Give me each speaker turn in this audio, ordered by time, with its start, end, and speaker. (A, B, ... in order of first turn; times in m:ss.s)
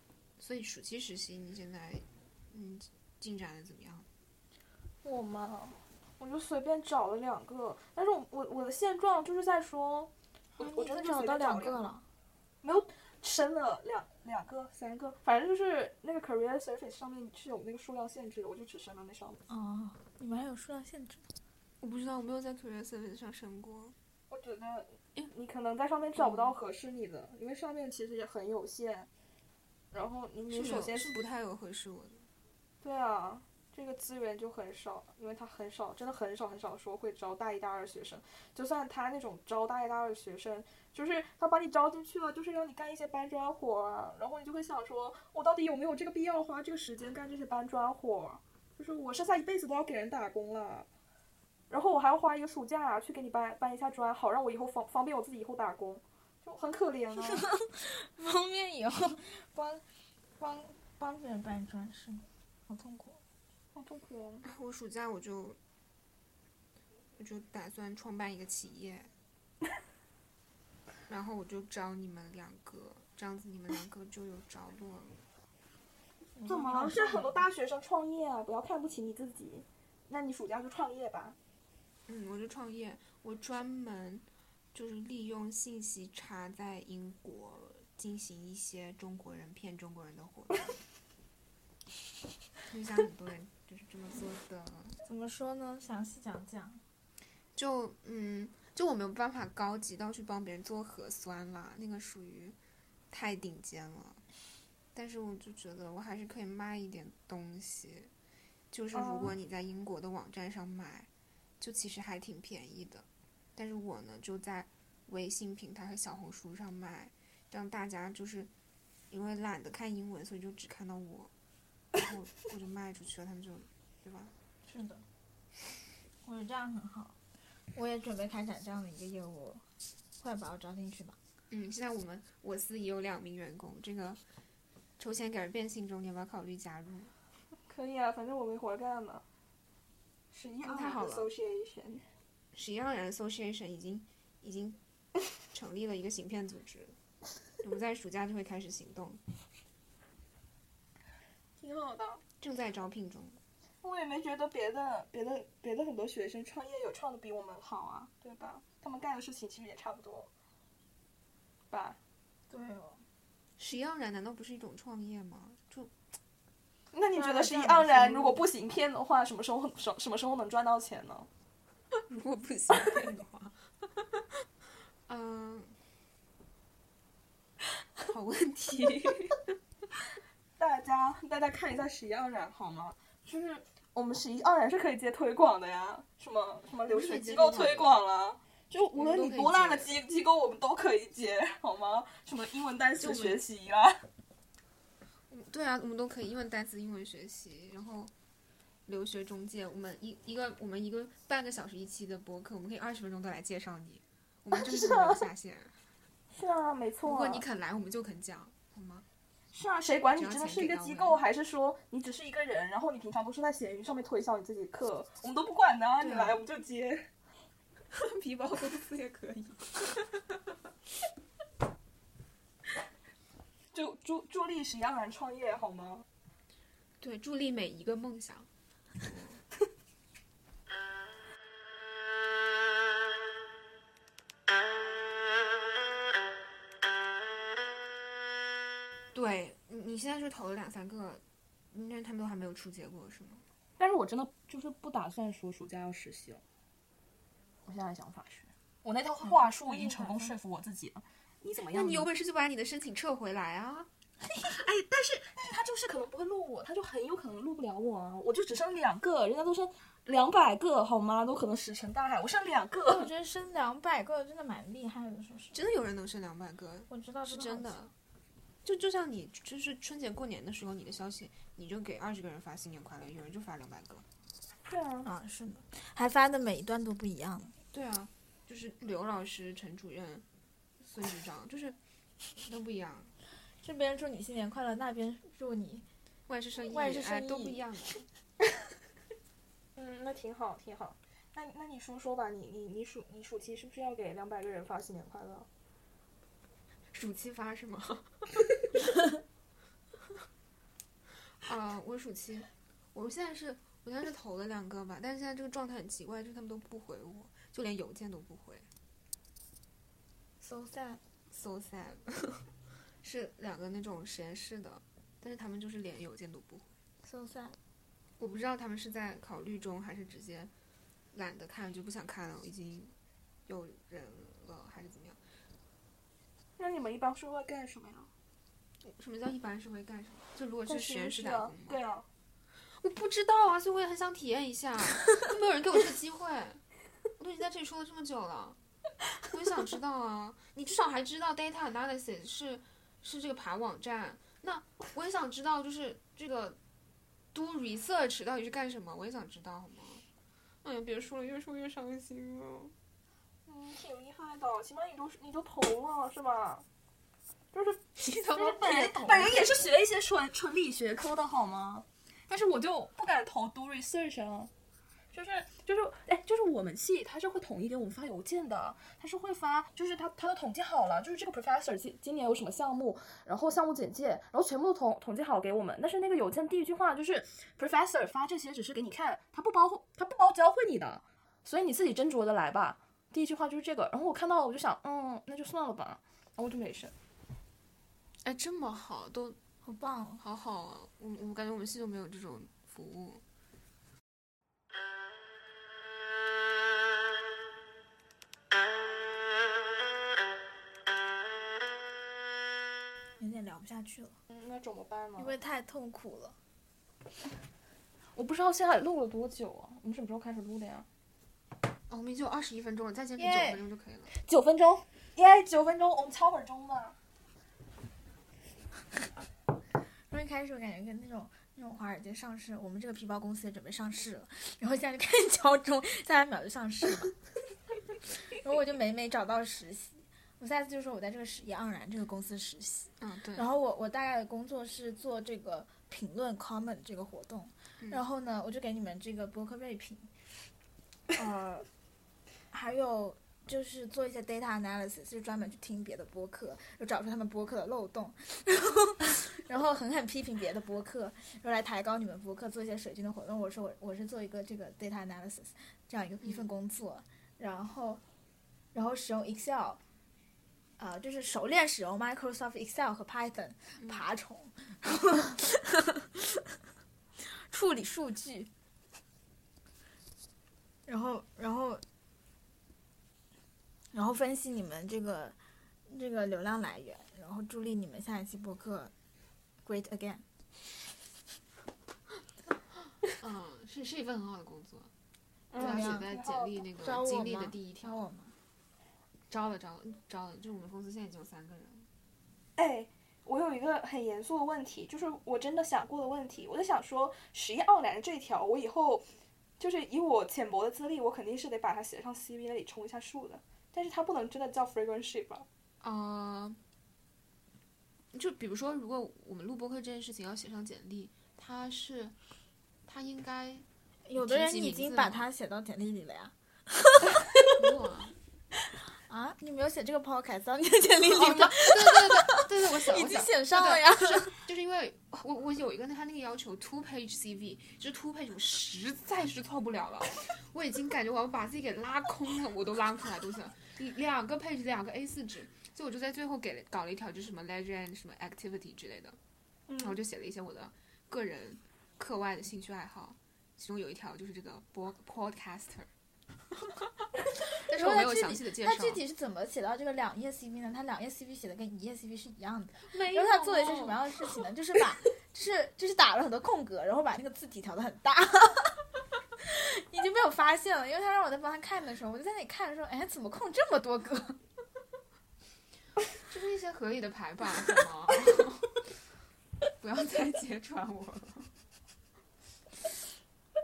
0:00.4-0:04.1 A
0:05.0-0:11.8 B
0:10.6-0:12.0 C
0:12.6-0:19.4 B
0:19.5-0:21.2 C
0:21.8-0:24.0 A
0:24.3-0:29.1 B
0:26.2-0:26.6 A
0:29.9-0:31.2 B
0:30.5-0:32.3 A
0:32.8-0:50.9 B
0:51.7-0:57.5 B
0:57.3-0:59.8 C
1:00.4-1:03.2 C
1:03.8-1:04.4 B
1:04.4-1:05.6 A
1:07.2-1:09.1 A
1:11.1-1:15.2 A
1:16.4-1:17.4 C
1:16.5-1:21.4 B
1:22.1-1:30.7 A
1:32.7-1:35.0 A
1:35.0-1:36.8 C
1:37.6-1:42.6 A
1:43.1-1:44.2 A
1:45.0-1:48.1 A
1:48.7-1:51.1 A
1:48.9-1:49.4 B
1:51.6-1:58.5 A
1:59.1-2:01.3 A
2:01.9-2:04.3 A
2:04.7-2:05.0 C
2:06.2-2:07.2 C
2:07.7-2:09.6 C
2:10.2-2:11.2 C
2:11.5-2:14.2 A
2:15.0-2:17.1 A
2:17.7-2:19.2 B
2:20.3-2:22.1 B
2:20.6-2:21.3 A
2:22.5-2:24.8 A
2:25.4-2:27.0 A
2:27.6-2:29.2 A
2:31.6-2:32.2 B
2:32.4-2:33.4 A
2:33.8-2:40.3 B
2:41.7-2:42.0 B
2:42.5-2:43.0 C
2:43.6-2:45.9 A
2:46.9-2:51.3 B
2:47.1-2:48.4 C
2:52.1-2:54.2 A
2:55.1-2:55.8 A
2:58.1-2:59.5 A
3:00.6-3:14.0 B
3:06.9-3:07.9 A
3:09.0-3:09.9 A
3:13.0-3:13.4 A
3:15.3-3:18.1 A
3:18.9-3:25.8 A
3:24.5-3:25.2 B
3:26.3-3:27.4 B
3:27.0-3:29.1 A
3:29.5-3:37.1 B
3:30.2-3:31.2 A
3:36.0-3:36.4 A
3:37.9-3:40.3 A
3:43.7-3:46.0 B
3:47.0-3:48.5 A
3:49.0-3:49.4 A
3:59.1-4:03.4 A
4:03.8-4:06.4 B
4:07.6-4:12.1 B
4:09.2-4:10.4 C
4:11.7-4:13.9 A
4:14.4-4:23.1 B
4:22.9-4:25.6 C
4:25.5-4:27.9 A
4:26.9-4:27.9 C
4:28.6-4:34.1 A
4:34.7-4:35.1 B
4:35.0-4:37.6 C
4:37.7-4:40.2 A
4:40.8-4:41.8 A
4:42.4-4:43.1 A
4:43.6-4:45.9 C
4:46.3-4:48.1 A
4:46.6-4:47.6 C
4:49.8-4:55.5 B
4:56.9-4:58.3 A
5:01.4-5:08.7 A
5:10.4-5:11.0 C
5:11.3-5:12.5 A
5:13.0-5:16.7 A
5:17.0-5:17.6 C
5:18.2-5:20.5 A
5:21.1-5:23.0 A
5:23.5-5:25.2 A
5:26.6-5:28.1 B
5:28.8-5:31.8 A
5:30.7-5:32.1 B
5:32.8-5:36.6 A
5:37.2-5:38.6 A
5:39.3-5:46.6 A
5:47.3-5:50.0 A
5:50.6-5:52.8 A
5:53.5-5:56.6 B
5:57.5-6:04.5 B
5:58.0-5:59.6 A
6:05.1-6:26.9 B
6:28.2-6:29.4 A
6:29.6-6:30.2 C
6:30.2-6:33.2 A
6:43.2-6:44.2 C
6:44.3-6:45.4 B
6:45.2-6:46.4 C
6:48.2-6:50.9 B
6:51.9-6:54.1 A
6:53.2-6:53.6 C
6:54.2-6:57.0 B
7:00.1-7:07.2 C
7:08.3-7:20.1 C
7:13.0-7:13.5 A
7:21.1-7:21.7 C
7:22.5-7:38.0 C
7:36.2-7:36.5 A
7:38.7-7:39.8 C
7:40.8-7:46.4 C
7:47.2-7:48.5 C
7:50.9-7:51.8 C
7:53.9-7:55.4 C
7:55.9-7:58.9 C
7:59.6-8:00.2 C
8:03.1-8:04.9 A
8:05.5-8:06.6 B
8:05.6-8:06.1 C
8:05.6-8:08.0 A
8:06.8-8:08.4 C
8:09.3-8:11.9 A
8:12.6-8:19.1 B
8:19.6-8:25.5 B
8:25.8-8:26.6 A
8:28.1-8:32.2 A
8:32.9-8:35.3 A
8:34.1-8:37.2 C
8:37.5-8:38.2 A
8:38.9-8:44.3 C
8:41.1-8:59.2 A
8:59.7-9:00.0 B
8:59.8-9:05.9 A
9:07.6-9:09.0 A
9:07.7-9:18.8 C
9:12.9-9:14.1 A
9:19.4-9:24.4 C
9:26.2-9:28.9 A
9:29.8-9:31.5 A